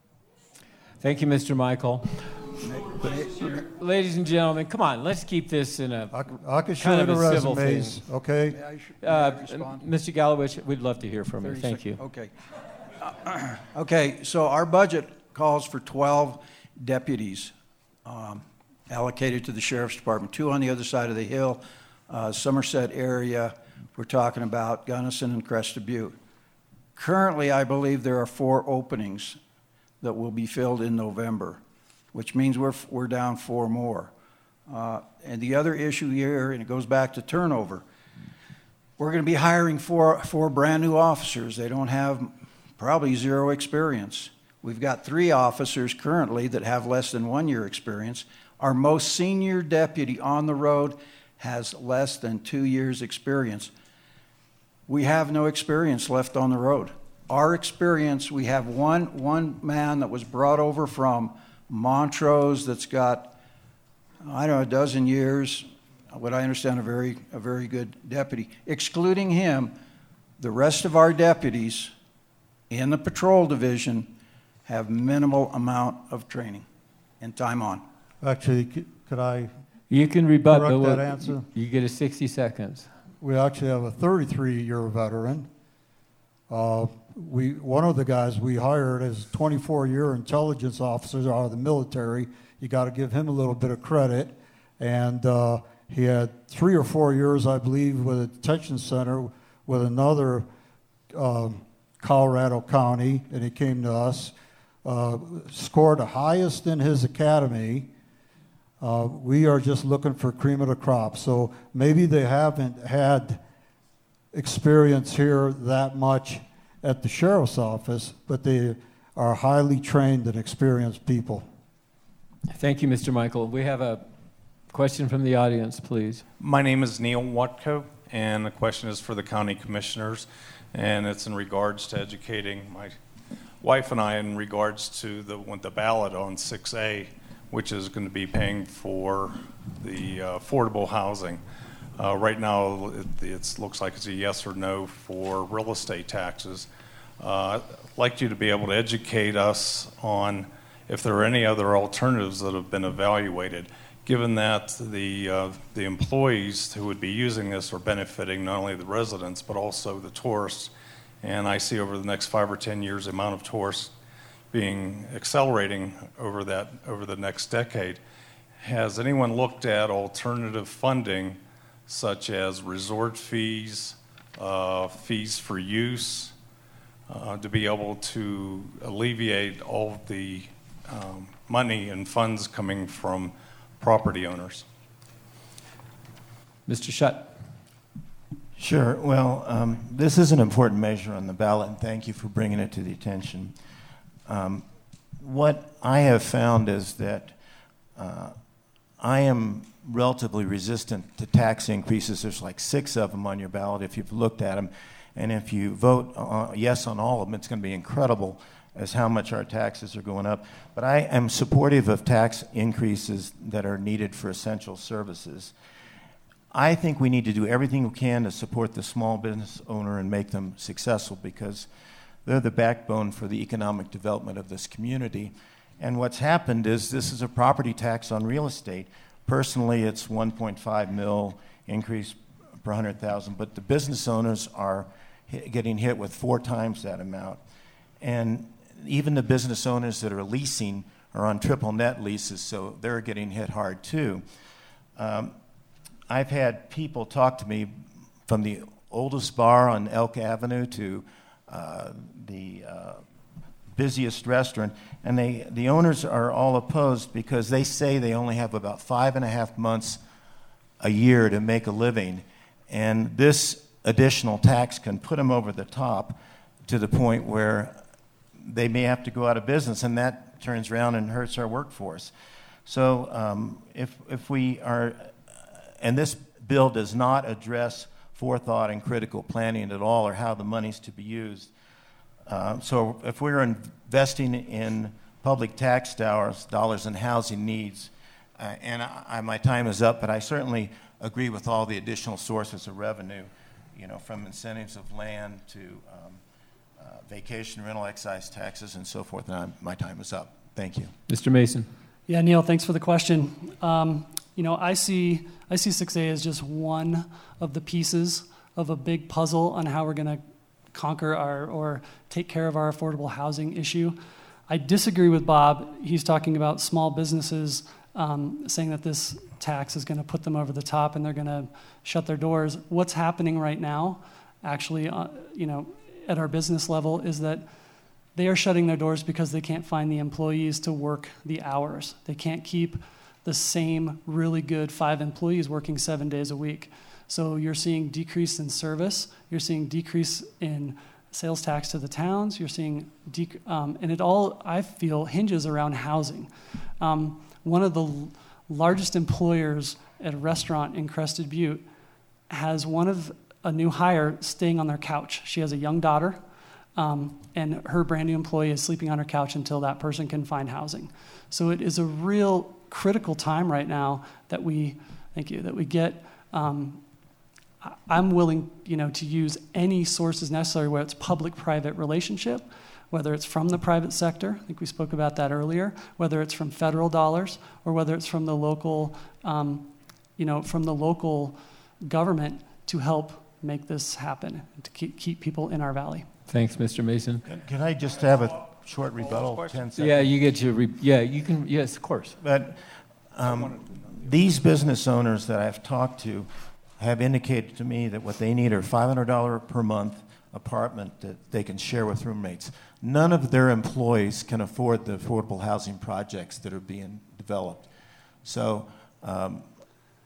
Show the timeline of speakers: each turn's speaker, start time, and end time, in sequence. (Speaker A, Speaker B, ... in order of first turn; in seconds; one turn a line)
Speaker A: 1.0-6.1
Speaker B: 2.6-3.6
Speaker C: 6.1-8.6
Speaker A: 6.8-8.0
Speaker B: 8.5-9.8
Speaker A: 9.0-12.0
Speaker B: 11.4-12.3
Speaker B: 13.0-17.5
Speaker B: 18.1-26.2
Speaker B: 27.0-29.4
Speaker B: 30.0-31.6
Speaker B: 32.1-34.1
Speaker B: 34.7-37.8
Speaker B: 39.0-53.7
Speaker B: 54.9-63.3
Speaker B: 64.2-69.7
Speaker B: 70.4-71.9
Speaker B: 72.7-74.1
Speaker B: 74.7-76.7
Speaker B: 77.2-77.8
Speaker C: 78.2-79.5
Speaker A: 79.9-82.9
Speaker C: 80.5-81.5
Speaker C: 83.2-85.5
Speaker C: 86.5-100.5
Speaker C: 101.1-107.9
Speaker C: 108.8-113.4
Speaker C: 114.3-121.5
Speaker A: 122.5-124.1
Speaker A: 124.7-126.2
Speaker D: 126.4-133.0
Speaker D: 133.6-141.4
Speaker D: 142.0-146.7
Speaker D: 147.2-163.9
Speaker D: 164.5-168.0
Speaker D: 168.6-176.3
Speaker D: 177.1-184.7
Speaker A: 186.7-187.4
Speaker E: 188.6-193.6
Speaker E: 194.3-194.6
Speaker E: 195.2-197.4
Speaker E: 198.0-198.4
Speaker E: 199.0-215.5
Speaker E: 216.5-221.7
Speaker E: 222.2-237.4
Speaker E: 238.0-244.2
Speaker E: 245.0-245.3
Speaker E: 246.1-247.8
Speaker E: 248.3-253.0
Speaker E: 253.7-260.0
Speaker E: 260.8-267.8
Speaker E: 268.4-272.1
Speaker E: 272.7-275.1
Speaker E: 275.8-281.5
Speaker E: 282.3-296.2
Speaker E: 296.8-300.9
Speaker A: 301.1-301.7
Speaker F: 302.1-314.0
Speaker F: 314.5-327.5
Speaker F: 328.1-351.7
Speaker F: 352.3-356.2
Speaker F: 356.8-366.8
Speaker F: 367.6-386.1
Speaker A: 386.3-387.2
Speaker E: 387.3-390.1
Speaker A: 389.8-392.2
Speaker E: 392.2-392.6
Speaker E: 393.1-407.7
Speaker E: 408.2-409.5